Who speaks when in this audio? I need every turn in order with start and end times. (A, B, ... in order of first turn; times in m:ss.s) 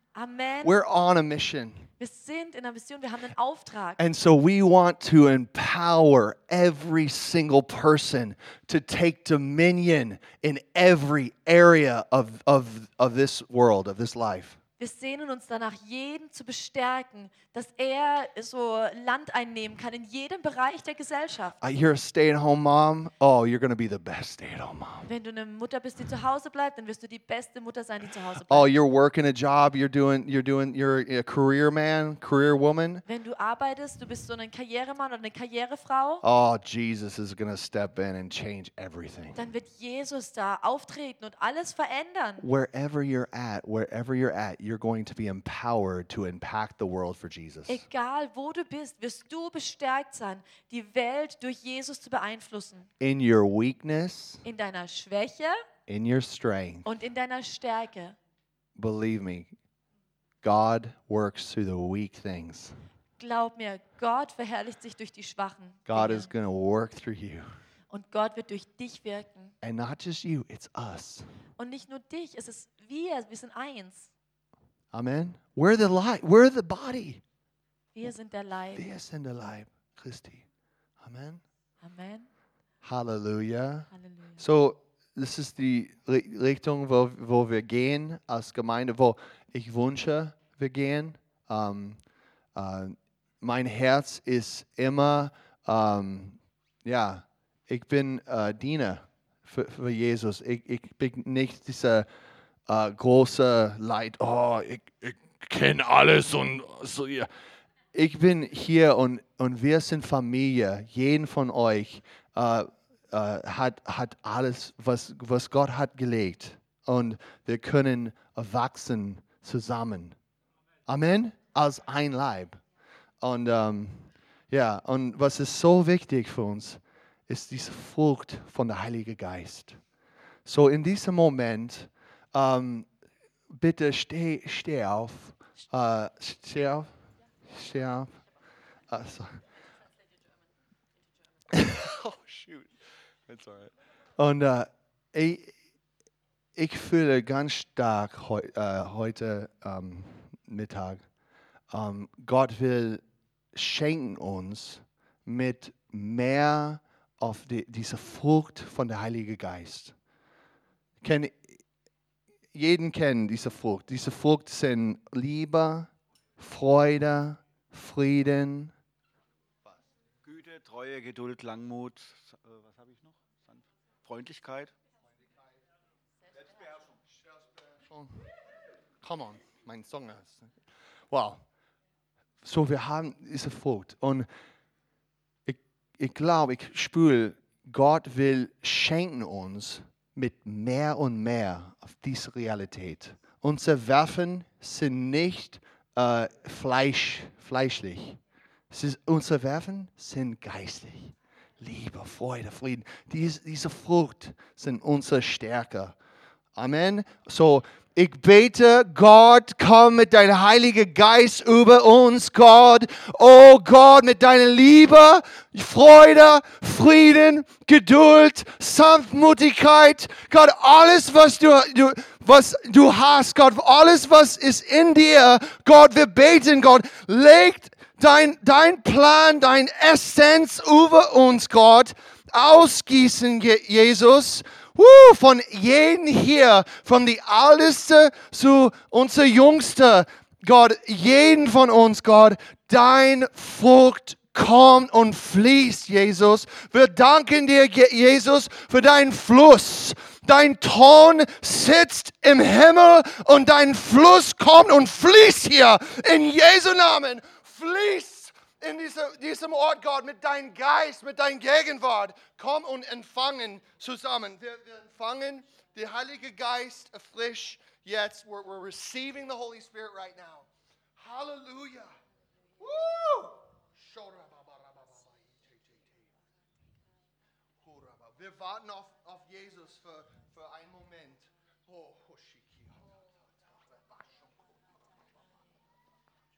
0:00.1-0:00.7 A
0:00.6-0:01.9 B
0:02.0-0:04.0 A
0:04.0-0:14.6 B
0:14.8-0:21.6 A
0:21.6-0:25.1 B
0:25.0-0:28.7 A
0:28.5-0:33.0 B
0:33.0-0:36.2 A
0:36.2-0:39.4 B
0:39.3-0:42.5 A
0:42.4-0:47.8 B
0:47.7-0:52.9 A
0:53.0-0:54.4 B
0:54.4-0:55.6 A
0:55.9-0:56.9 B
0:56.8-0:58.2 A
0:58.8-0:59.5 B
1:00.4-1:02.8 B
1:03.2-1:06.3 A
1:05.9-1:07.4 B
1:07.9-1:09.5 A
1:09.6-1:11.3 B
1:11.6-1:14.1 A
1:14.9-1:17.2 B
1:17.9-1:18.9 A
1:18.8-1:20.4 B
1:21.0-1:21.4 B
1:21.8-1:22.3 A
1:22.8-1:32.0 B
1:23.9-1:24.4 A
1:32.5-1:42.1 B
1:42.7-1:47.3 B
1:47.9-2:00.2 B
2:00.9-2:02.6 B
2:03.2-2:09.8 B
2:10.4-2:12.9 B
2:13.5-2:16.9 B
2:17.4-2:18.2 B
2:18.9-2:19.4 B
2:21.5-2:22.7 B
2:23.3-2:25.5 B
2:26.6-2:31.0 B
2:31.7-2:33.0 B
2:33.5-2:39.9 B
2:41.0-2:41.6 B
2:42.5-2:48.7 B
2:50.2-2:54.7 C
2:57.3-2:58.2 B
2:59.0-3:00.5 B
3:01.1-3:01.4 B
3:02.4-3:04.3 B
3:05.4-3:18.2 B
3:18.7-3:26.0 B
3:26.6-4:31.9 B
4:32.6-4:36.1 B
4:37.6-4:44.3 B